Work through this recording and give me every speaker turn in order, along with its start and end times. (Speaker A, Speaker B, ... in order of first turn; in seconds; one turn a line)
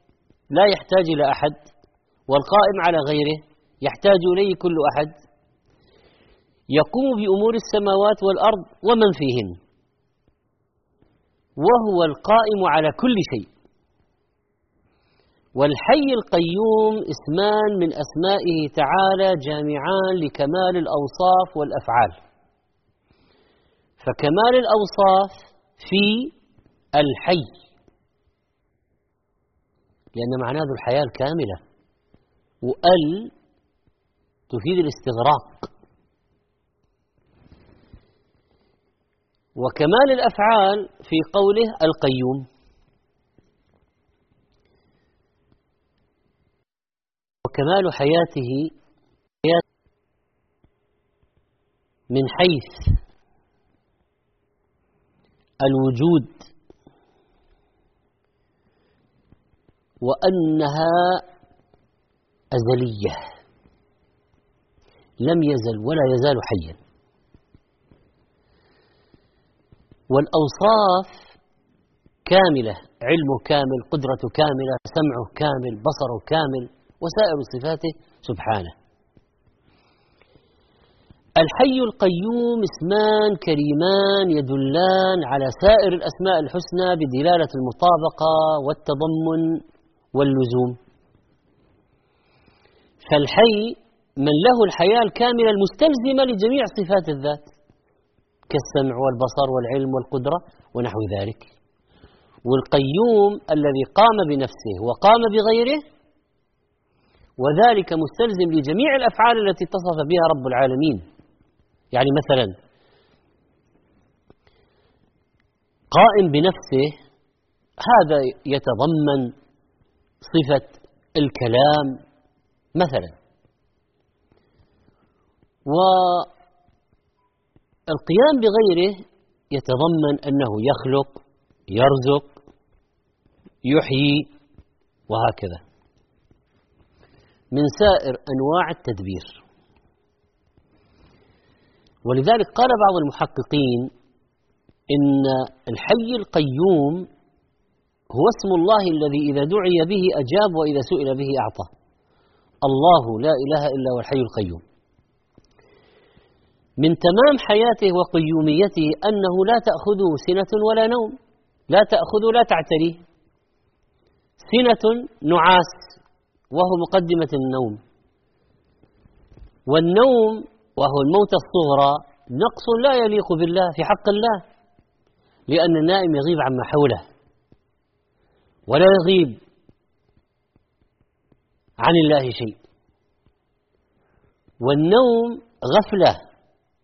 Speaker A: 0.5-1.6
Speaker A: 2.3-5.1
Speaker A: 6.7-9.6
Speaker A: 11.6-13.5
Speaker A: 15.6-22.2
Speaker A: 24.0-26.3
Speaker A: 27.0-27.5
Speaker A: 30.2-31.6
Speaker A: 32.6-33.3
Speaker A: 34.5-35.7
Speaker A: 39.6-42.5
Speaker A: 47.4-48.7
Speaker A: 52.1-53.0
Speaker A: 55.6-56.5
Speaker A: 60.0-61.2
Speaker A: 62.5-63.2
Speaker A: 65.2-66.8
Speaker A: 70.1-71.2
Speaker A: 72.3-78.7
Speaker A: 81.4-89.6
Speaker A: 90.2-90.8
Speaker A: 93.1-97.5
Speaker A: 98.5-101.5
Speaker A: 102.5-105.8
Speaker A: 107.4-111.0
Speaker A: 111.9-112.5
Speaker A: 115.9-117.0
Speaker A: 117.8-119.3
Speaker A: 120.3-122.0
Speaker A: 122.8-123.1
Speaker A: 125.7-126.3
Speaker A: 127.9-129.0
Speaker A: 129.5-131.2
Speaker A: 131.7-132.4
Speaker A: 133.6-134.3
Speaker A: 135.1-135.6
Speaker A: 137.5-139.4
Speaker A: 142.1-143.9
Speaker A: 144.9-147.1
Speaker A: 148.1-151.7
Speaker A: 152.7-154.6
Speaker A: 156.8-161.2
Speaker A: 161.7-163.0
Speaker A: 164.4-165.9
Speaker A: 166.5-167.8
Speaker A: 169.7-174.4
Speaker A: 175.5-177.0
Speaker A: 178.7-179.4
Speaker A: 181.8-182.6
Speaker A: 184.6-186.2